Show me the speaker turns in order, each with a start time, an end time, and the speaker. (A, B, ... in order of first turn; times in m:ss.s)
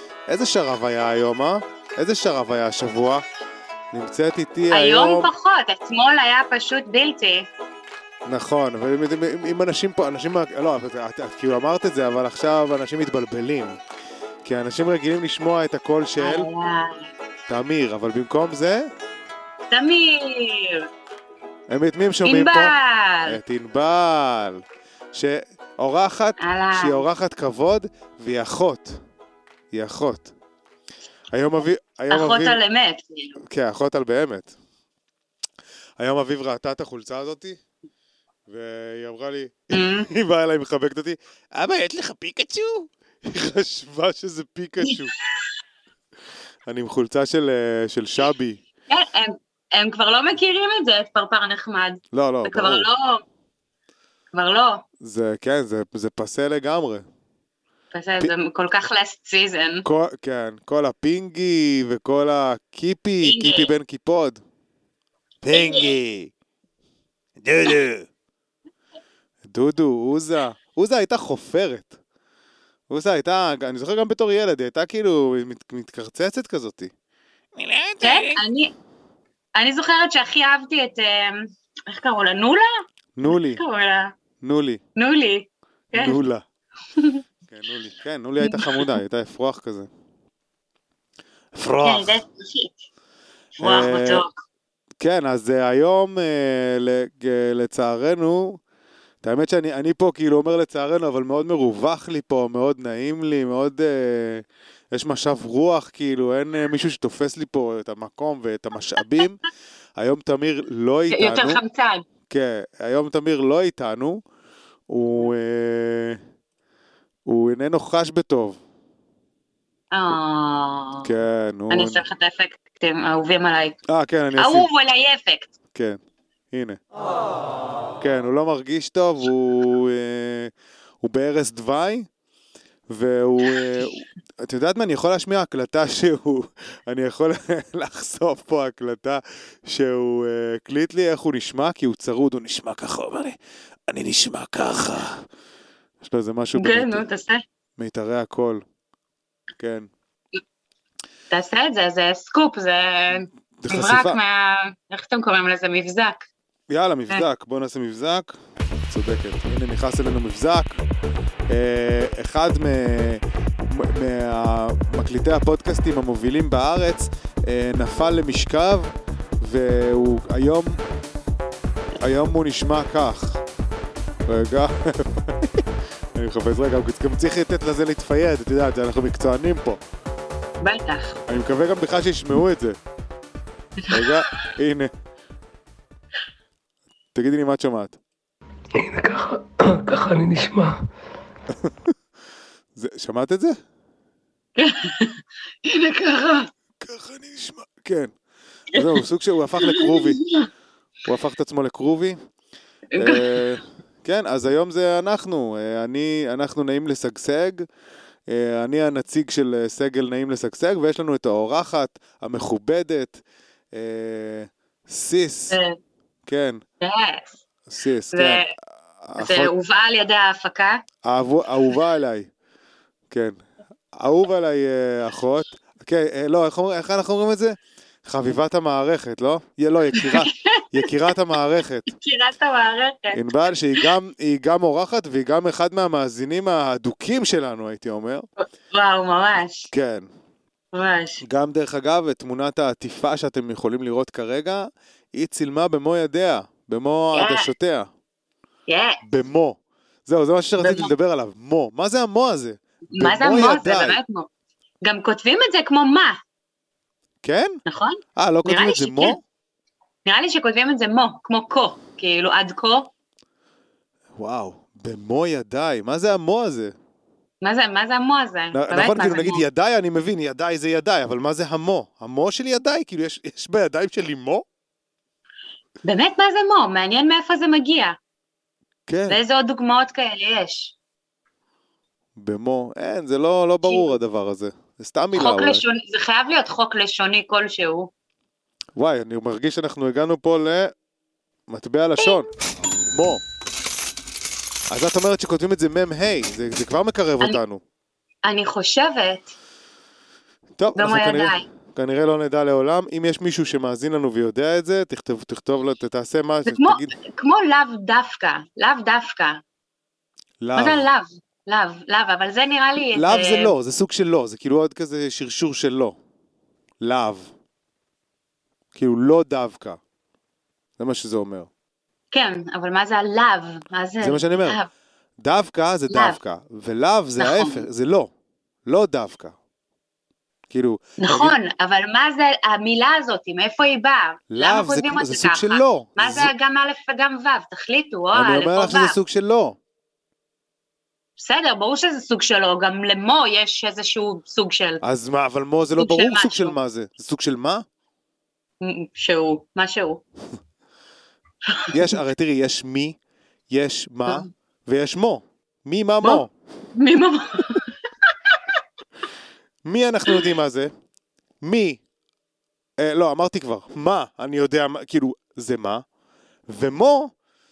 0:00.3-0:03.2 A
0:03.9-0:05.3 A
0:04.7-0:07.5 B
0:08.3-0:13.8 A
0:14.4-0:16.5 A
0:16.2-0:17.1 B
0:17.5-0:18.9 A
0:19.7-0:20.9 B
0:21.7-0:22.8 A
0:22.2-0:23.4 B
0:23.3-0:24.6 A
0:25.1-0:29.0 A
0:26.4-0:27.0 B
0:29.7-0:30.3 A
0:31.3-0:32.6 A
0:32.1-0:33.4 B
0:33.4-0:34.5 A
0:36.0-0:37.6 A
0:38.5-0:45.1 A
0:39.7-0:40.1 B
0:46.7-0:48.6 A
0:48.9-0:53.2 B
0:52.1-0:52.9 A
0:54.3-0:54.8 B
0:55.0-0:57.1 A
0:57.9-0:59.9 B
0:59.8-1:04.4 A
1:03.2-1:03.7 B
1:05.4-1:06.3 A
1:05.5-1:05.9 B
1:07.4-1:08.1 A
1:09.4-1:11.9 A
1:12.9-1:16.9 A
1:17.6-1:18.4 A
1:18.0-1:18.7 B
1:19.6-1:22.7 B
1:23.2-1:23.6 A
1:23.2-1:24.2 B
1:24.4-1:24.8 A
1:25.0-1:26.2 B
1:25.9-1:26.4 A
1:27.0-1:27.2 B
1:27.5-1:29.9 A
1:28.4-1:29.0 B
1:31.5-1:32.2 A
1:31.8-1:32.8 B
1:33.6-1:34.4 B
1:33.6-1:34.2 A
1:35.0-1:38.6 A
1:39.2-1:49.4 A
1:50.0-1:51.6 A
1:51.1-1:52.1 B
1:52.3-1:54.2 A
1:54.9-1:56.2 A
1:57.3-1:58.6 A
1:59.9-2:01.1 B
2:01.0-2:02.0 A
2:01.7-2:03.8 B
2:03.9-2:04.7 A
2:04.4-2:05.5 B
2:05.7-2:06.0 A
2:06.5-2:06.8 A
2:08.0-2:12.1 A
2:12.9-2:23.4 A
2:23.9-2:25.2 A
2:26.0-2:27.0 A
2:26.5-2:27.4 B
2:27.8-2:28.6 A
2:29.6-2:29.9 A
2:31.3-2:36.3 B
2:33.6-2:34.2 A
2:36.7-2:38.4 A
2:38.9-2:40.8 A
2:41.5-2:50.8 A
2:52.0-2:53.4 A
2:54.3-2:59.8 A
3:00.6-3:01.2 B
3:01.3-3:02.8 A
3:03.8-3:04.3 B
3:03.9-3:04.9 A
3:07.2-3:08.0 A
3:08.7-3:10.8 C
3:11.6-3:11.9 A
3:12.8-3:13.6 A
3:14.6-3:16.5 B
3:16.8-3:18.1 A
3:18.7-3:20.2 A
3:19.6-3:20.5 B
3:21.0-3:22.2 A
3:22.9-3:23.4 B
3:23.0-3:27.7 A
3:28.3-3:33.2 A
3:33.7-3:35.6 A
3:35.5-3:35.8 B
3:36.3-3:36.6 A
3:36.8-3:37.4 B
3:37.7-3:38.5 A
3:38.1-3:38.5 B
3:39.0-3:39.5 A
3:39.2-3:40.8 B
3:41.0-3:42.3 A
3:43.1-3:43.4 A
3:43.9-3:51.9 A
3:50.0-3:50.9 B
3:51.9-3:53.9 B
3:53.1-3:58.3 A
3:58.4-3:59.7 B
3:59.7-4:00.1 A
4:00.7-4:01.2 B
4:01.2-4:07.9 A
4:07.1-4:07.5 B
4:08.7-4:09.0 B
4:09.0-4:14.0 A
4:10.6-4:10.9 B
4:12.9-4:14.3 B
4:14.8-4:16.2 B
4:17.2-4:17.6 A
4:17.7-4:19.2 B
4:18.2-4:19.2 A
4:20.0-4:22.9 B
4:24.2-4:26.8 A
4:27.4-4:29.4 B
4:28.5-4:34.5 A
4:35.8-4:38.0 B
4:38.9-4:39.2 A
4:39.1-4:40.7 B
4:42.2-4:45.6 A
4:43.6-4:43.9 B
4:45.1-4:47.9 B
4:48.8-4:50.7 A
4:51.5-4:52.3 A
4:52.0-4:52.3 B
4:52.9-4:53.2 A
4:54.7-4:57.6 A
4:58.2-4:59.4 B
5:00.6-5:07.0 A
5:00.8-5:01.5 B
5:06.5-5:09.4 B
5:10.4-5:10.9 A
5:10.6-5:13.5 B
5:12.9-5:16.0 A
5:16.8-5:17.3 A
5:18.7-5:19.8 A
5:20.8-5:21.5 A
5:22.1-5:24.7 B
5:24.0-5:24.6 A
5:25.2-5:28.1 A
5:25.9-5:26.2 B
5:27.2-5:27.7 B
5:28.7-5:29.4 A
5:30.5-5:31.4 A
5:31.0-5:39.0 B
5:34.3-5:36.3 A
5:38.1-5:39.6 A
5:41.2-5:44.8 B
5:44.8-5:47.6 A
5:45.8-5:46.6 B
5:48.6-5:50.0 B
5:51.5-5:51.7 B
5:51.7-5:53.0 A
5:53.5-5:56.3 A
5:56.8-5:57.7 B
5:59.6-6:00.7 A
6:01.4-6:01.8 A
6:02.8-6:05.8 A
6:06.5-6:07.1 A